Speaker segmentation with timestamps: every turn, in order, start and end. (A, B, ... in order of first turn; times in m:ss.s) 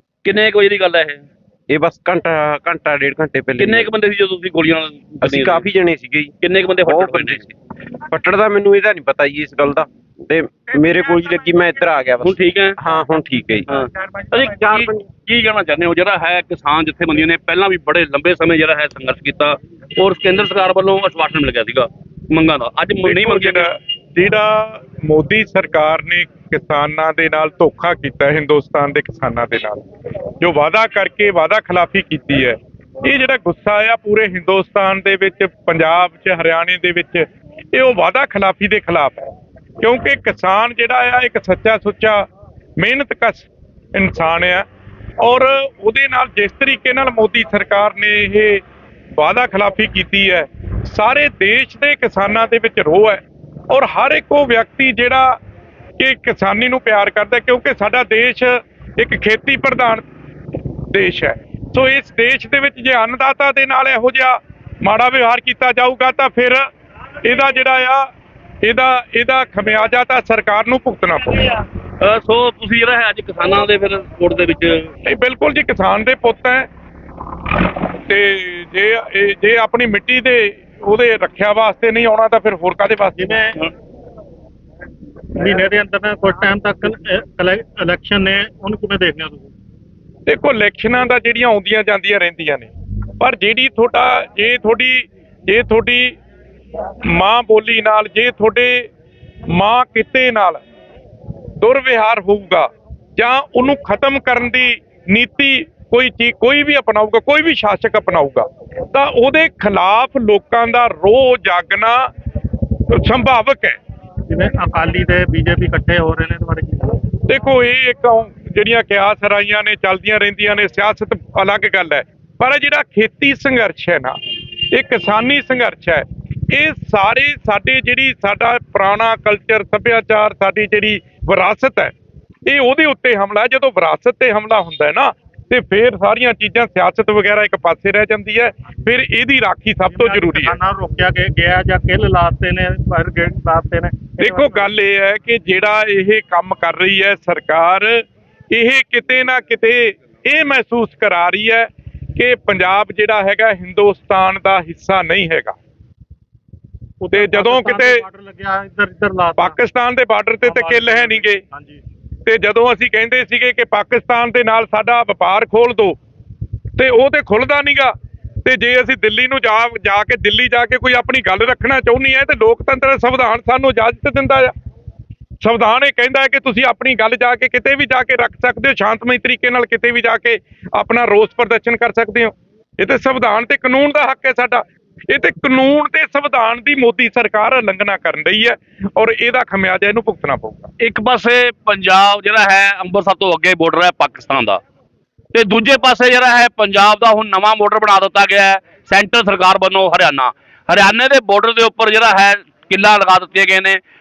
0:00.2-0:01.2 A
0:01.7-0:03.9 B
0:03.6-0:05.7 A
0:05.2-0:06.3 B
0:06.4-0:07.5 A
0:06.9-0:07.5 B
0:08.1-0:13.7 B
0:12.2-0:12.8 A
0:13.7-0:23.7 A
0:14.6-0:14.9 B
0:23.0-0:29.9 C
0:30.4-0:42.3 C
0:42.8-0:44.7 C
0:45.2-0:48.6 C
0:49.2-0:55.4 C
0:56.0-1:00.0 C
1:00.9-1:06.6 C
1:07.2-1:08.1 C
1:08.6-1:11.4 C
1:12.0-1:14.9 A
1:15.1-1:16.7 C
1:18.1-1:23.4 C
1:23.2-1:23.6 D
1:25.4-1:29.5 D
1:30.3-1:36.2 C
1:37.1-1:38.9 C
1:39.5-1:40.6 C
1:41.6-1:52.1 C
1:52.9-1:53.8 C
1:54.3-1:57.1 D
1:57.3-2:04.2 C
2:04.7-2:11.9 C
2:12.5-2:20.6 C
2:19.9-2:24.7 D
2:24.2-2:35.6 C
2:37.0-2:39.6 D
2:37.1-2:38.0 C
2:39.4-2:41.4 C
2:40.4-2:41.8 D
2:42.3-2:46.0 C
2:46.8-2:54.5 C
2:55.4-3:10.7 C
3:10.8-3:14.6 A
3:15.3-3:23.8 A